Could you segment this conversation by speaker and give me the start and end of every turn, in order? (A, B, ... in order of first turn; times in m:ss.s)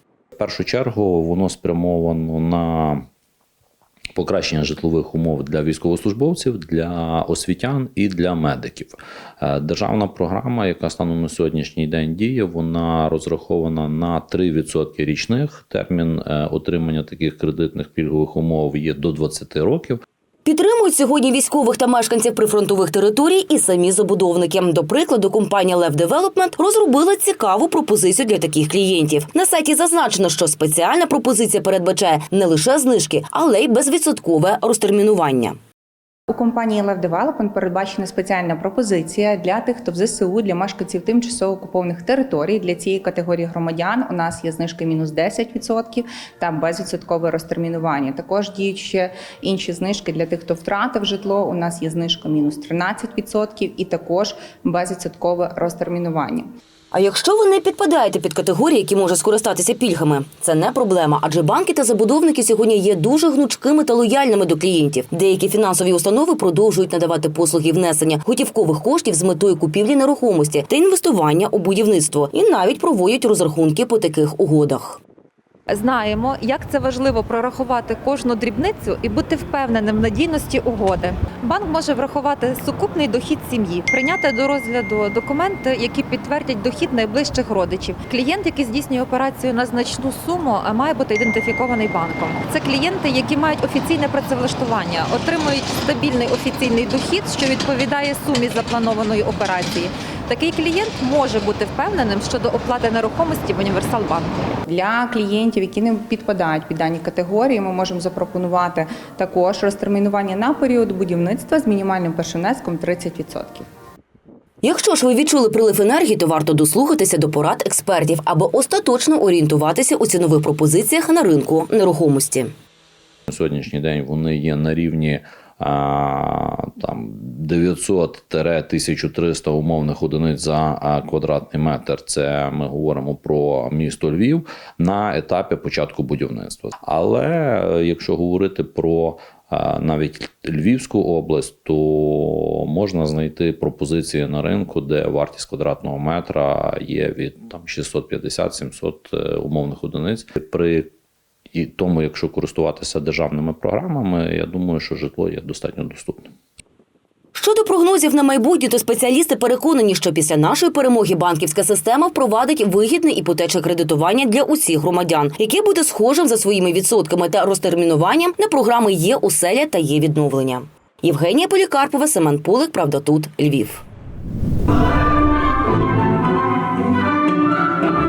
0:00.4-0:03.0 A
0:04.1-0:20.0 A
0:20.4-0:35.6 B
0:36.3-0:56.5 C
0:56.9-1:15.0 B
1:15.7-1:44.3 D
1:44.7-1:53.6 C
1:54.6-2:02.5 B
2:03.3-2:30.9 A
2:31.5-2:36.3 A
2:37.3-2:53.8 B